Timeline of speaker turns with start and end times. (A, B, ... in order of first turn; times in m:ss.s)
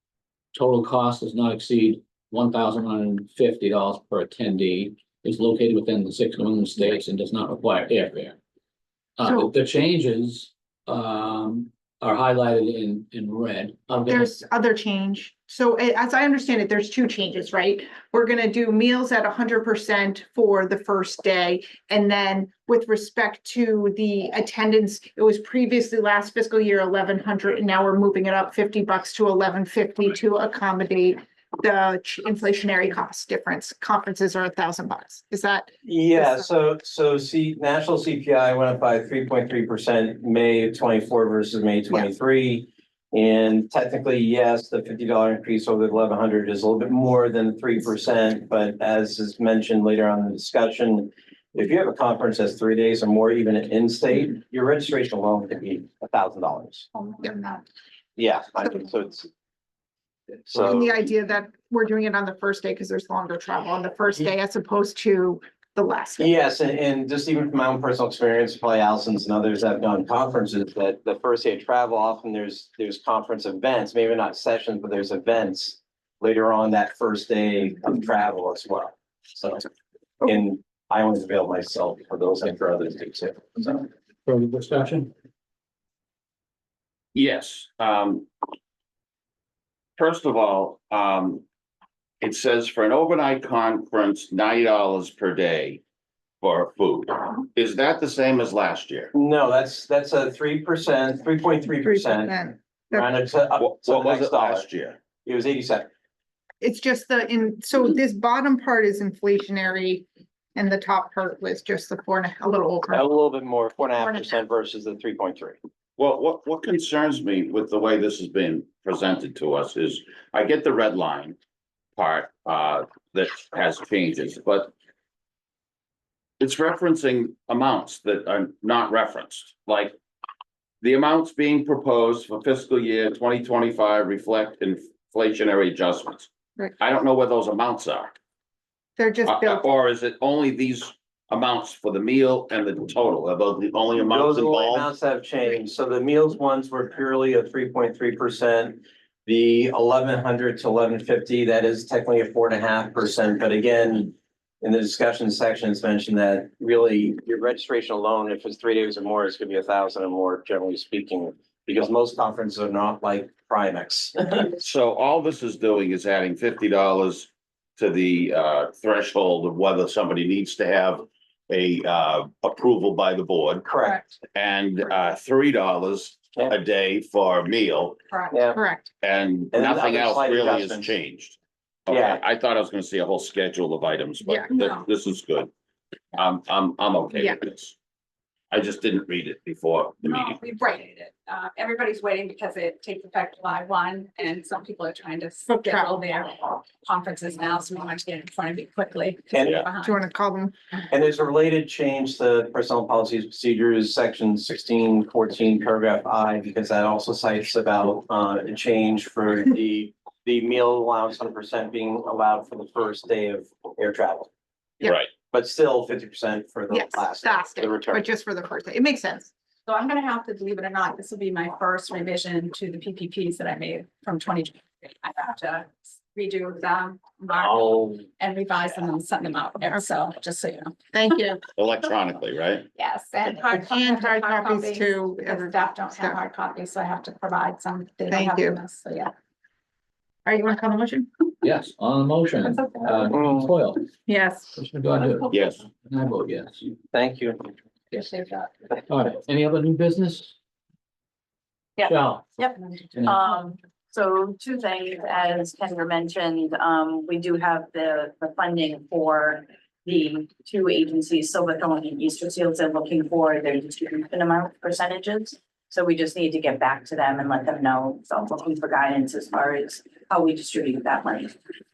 0:00.5-0:08.4 A
0:09.2-0:14.3 A
0:14.1-0:36.5 B
0:35.8-0:56.9 C
0:57.0-0:57.6 B
0:58.2-0:59.3 C
1:00.4-1:01.0 C
1:00.5-1:06.3 B
1:06.2-1:19.7 C
1:20.2-1:23.9 C
1:24.2-1:25.1 A
1:27.1-1:28.3 D
1:30.0-1:31.4 D
1:32.2-1:35.8 D
1:36.4-1:39.1 D
1:39.1-1:42.3 C
1:41.8-1:43.1 B
1:42.9-1:44.7 C
1:43.6-1:45.0 D
1:45.2-1:45.9 C
1:46.6-1:53.1 B
1:52.9-1:55.6 C
1:54.0-1:54.4 B
1:56.0-2:01.4 D
2:02.0-2:04.7 D
2:06.4-2:09.9 D
2:10.8-2:18.2 D
2:19.0-2:19.6 B
2:19.3-2:24.9 D
2:24.0-2:44.6 C
2:44.6-2:53.7 D
2:53.6-2:54.2 C
2:54.3-2:58.0 D
2:58.1-2:58.9 B
2:58.3-2:58.6 C
2:59.0-3:05.5 D
2:59.5-3:01.0 C
3:01.9-3:02.2 C
3:04.2-3:04.6 B
3:06.1-3:07.7 D
3:08.5-3:10.4 D
3:10.0-3:20.0 E
3:15.4-3:15.9 B
3:19.3-3:19.7 C
3:19.8-3:20.5 B
3:20.9-3:34.3 C
3:34.8-3:35.1 D
3:35.2-3:38.0 C
3:36.7-3:39.3 B
3:39.7-3:50.8 E
3:50.9-3:51.4 B
3:51.6-3:52.7 D
3:52.7-3:59.1 E
3:53.5-3:56.2 B
3:58.1-3:58.6 B
4:00.2-4:01.1 B
4:01.4-4:03.9 A
4:02.5-4:02.9 E
4:04.1-4:04.5 B
4:04.6-4:06.7 A
4:05.3-4:05.6 D
4:06.9-4:07.5 C
4:07.9-4:08.6 E
4:08.9-4:10.3 A
4:11.8-4:31.4 F
4:11.8-4:12.3 A
4:12.9-4:13.2 A